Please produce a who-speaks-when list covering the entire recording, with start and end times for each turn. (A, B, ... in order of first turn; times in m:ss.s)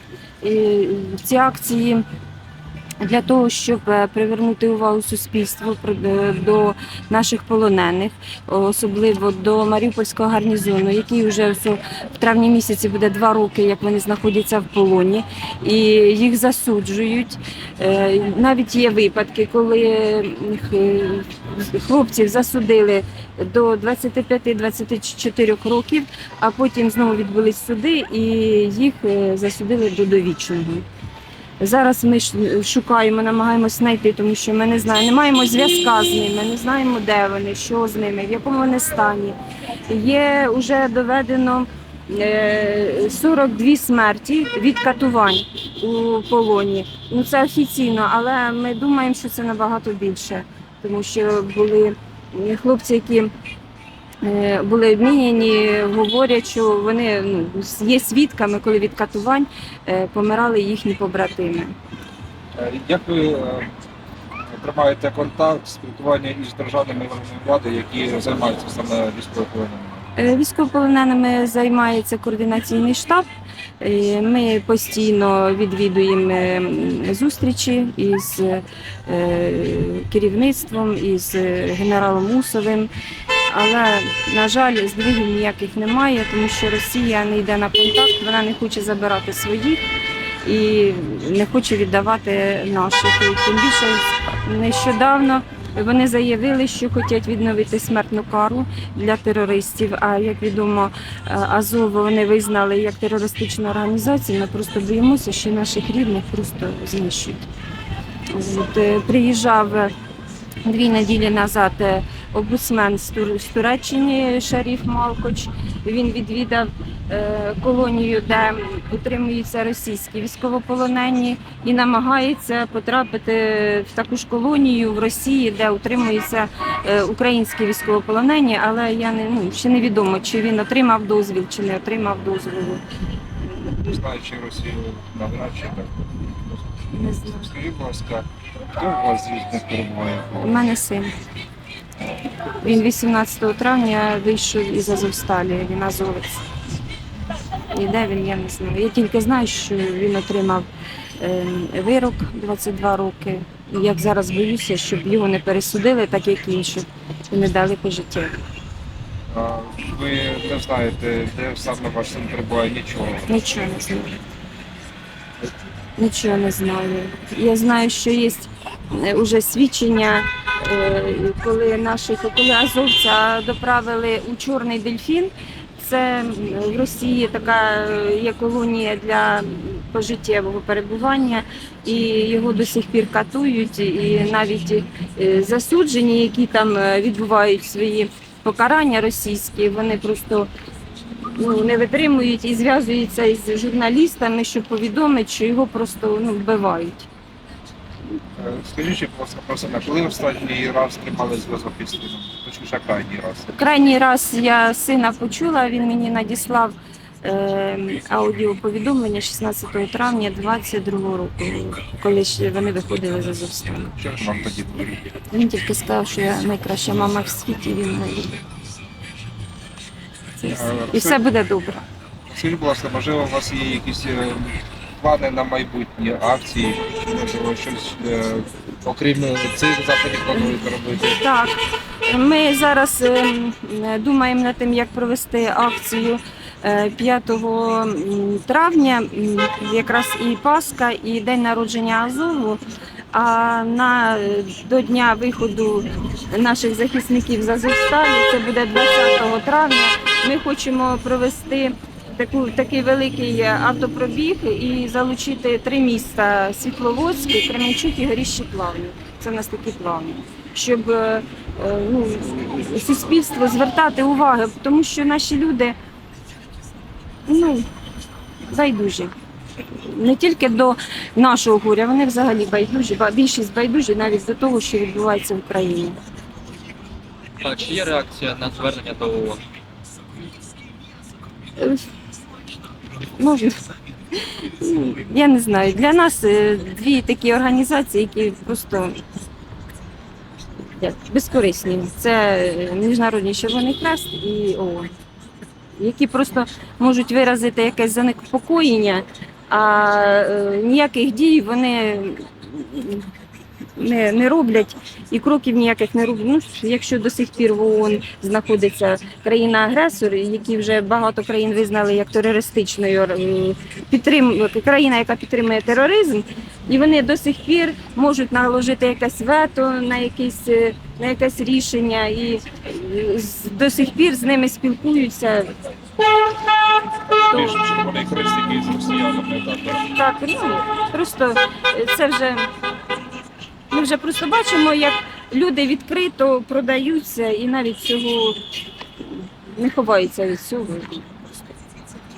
0:00.4-0:02.0 A
0:03.0-0:30.8 A
0:31.6-0:53.3 A
0:54.2-1:01.7 A
1:02.6-1:03.7 B
1:04.5-1:10.1 B
1:10.2-1:13.3 A
1:13.8-1:22.9 A
1:23.5-1:29.8 A
1:30.4-1:47.5 A
1:48.3-1:49.9 A
1:50.6-2:12.8 A
2:13.8-2:16.6 B
2:16.9-2:17.5 A
2:17.3-2:20.7 B
2:20.4-2:21.1 A
2:22.5-2:26.4 A
2:27.6-2:30.7 A
2:31.2-2:38.4 A
2:39.3-2:43.3 B
2:43.3-2:44.2 A
2:46.0-3:10.5 A
3:11.4-3:17.1 A
3:18.4-3:23.6 B
3:23.6-3:33.9 A
3:34.0-3:35.0 B
3:35.2-3:38.4 A
3:40.4-3:41.8 A
3:40.4-3:41.2 B
3:42.3-3:51.2 B
3:51.2-4:02.6 A
4:03.1-4:25.8 A
4:27.3-4:27.6 A
4:28.4-4:29.1 A
4:29.7-4:36.0 A
4:37.4-4:39.4 C
4:41.6-4:41.8 A
4:43.1-4:49.0 A
4:50.7-4:54.9 A
4:55.8-5:03.1 A
5:03.8-5:25.6 A
5:27.2-5:29.8 B
5:27.3-5:27.6 A
5:29.9-5:32.5 A
5:33.7-5:38.4 A
5:39.1-5:41.2 A